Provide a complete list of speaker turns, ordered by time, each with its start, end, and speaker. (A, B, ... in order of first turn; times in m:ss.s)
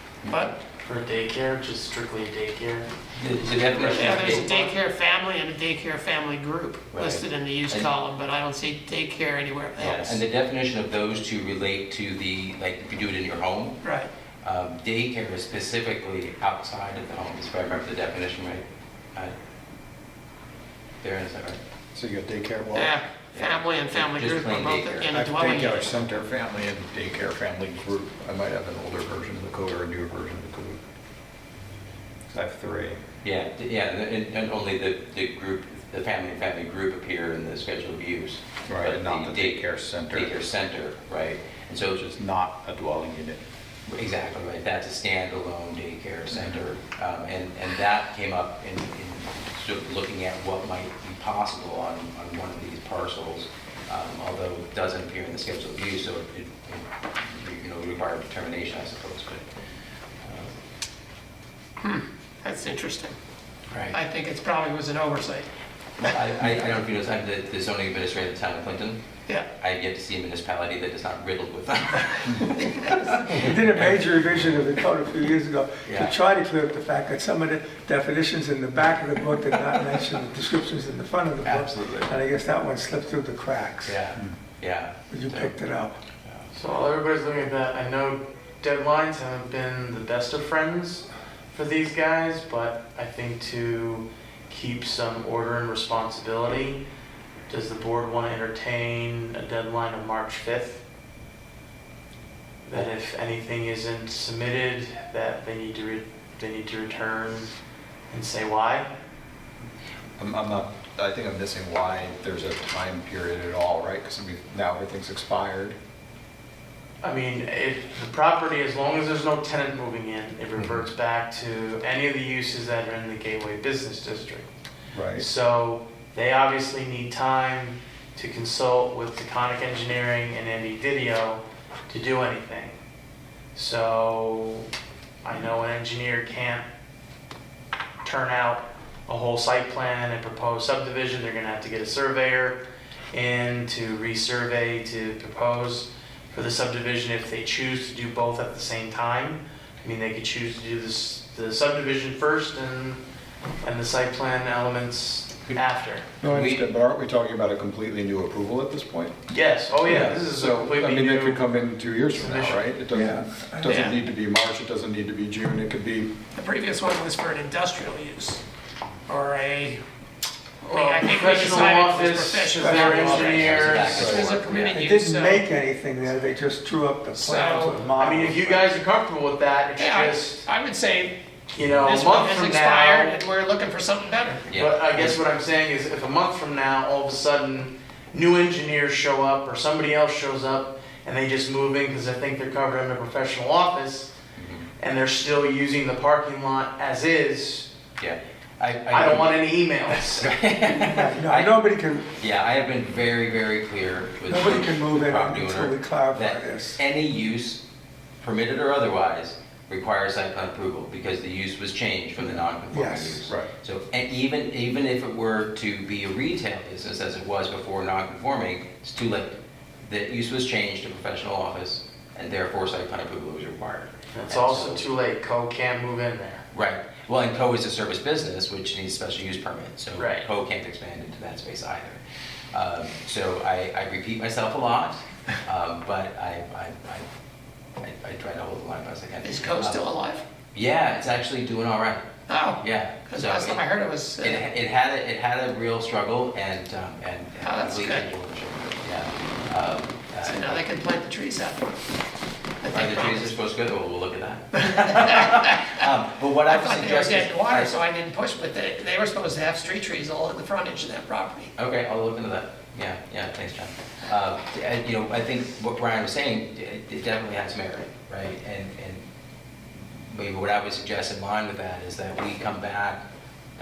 0:00.2-0:00.6 A
0:00.7-0:02.9 B
0:03.1-0:04.5 C
0:03.4-0:04.7 B
0:03.8-0:10.2 A
0:06.9-0:07.9 C
0:09.8-0:13.8 C
0:13.8-0:14.1 A
0:14.4-0:19.3 C
0:21.0-0:21.6 C
0:21.9-0:23.0 D
0:22.7-0:25.9 A
0:23.3-0:25.1 C
0:25.1-0:30.8 D
0:32.3-0:33.0 D
0:33.2-0:42.1 C
0:38.7-0:40.4 D
0:42.0-0:43.4 D
0:43.9-0:59.4 C
0:46.3-0:46.6 D
1:00.2-1:00.5 C
1:01.8-1:03.1 A
1:03.9-1:05.5 A
1:06.0-1:09.0 C
1:09.6-1:13.9 C
1:13.3-1:24.0 E
1:15.8-1:16.1 C
1:21.4-1:22.1 C
1:23.8-1:25.5 C
1:25.1-1:25.9 E
1:26.5-1:36.8 B
1:37.5-1:40.8 B
1:42.6-1:47.5 B
1:48.1-1:48.9 B
1:50.2-1:55.8 D
1:57.0-2:04.5 B
2:00.6-2:00.8 D
2:04.9-2:05.2 D
2:05.1-2:12.8 B
2:13.5-2:14.7 B
2:15.2-2:16.6 B
2:18.0-2:22.6 B
2:23.1-2:33.0 B
2:33.6-2:36.1 B
2:36.2-2:36.5 E
2:36.2-2:36.7 C
2:36.2-2:39.2 D
2:39.3-2:41.6 B
2:39.8-2:46.1 D
2:42.1-2:42.7 B
2:42.9-2:43.8 E
2:43.6-2:44.0 A
2:46.3-2:48.4 A
2:49.1-2:49.8 A
2:50.6-2:55.4 A
2:50.7-2:54.2 B
2:52.5-2:53.4 E
2:53.0-2:54.7 C
2:54.7-2:58.7 E
2:57.2-2:57.8 A
2:57.7-3:00.4 B
2:59.8-3:01.2 A
3:01.5-3:03.2 B
3:01.8-3:04.5 A
3:04.5-3:05.2 C
3:04.5-3:14.1 B
3:14.4-3:14.7 C
3:14.8-3:17.7 B
3:18.0-3:19.4 C
3:18.9-3:20.3 B
3:20.1-3:21.5 C
3:20.7-3:22.1 E
3:22.2-3:27.6 C
3:24.2-3:26.8 E
3:28.2-3:44.8 C
3:32.2-3:33.2 E
3:44.1-3:46.4 B
3:46.5-3:52.0 C
3:50.0-3:50.3 B
3:52.5-3:57.0 C
3:57.8-3:59.8 C
3:59.2-4:00.2 A
4:00.5-4:02.0 C
4:02.3-4:04.4 A
4:02.6-4:03.6 C
4:04.2-4:10.6 C
4:07.4-4:08.1 A
4:10.2-4:11.8 A
4:12.6-4:13.3 A
4:12.7-4:17.7 C
4:14.6-4:15.6 A
4:16.5-4:21.5 A
4:21.6-4:29.0 C
4:30.1-4:33.0 C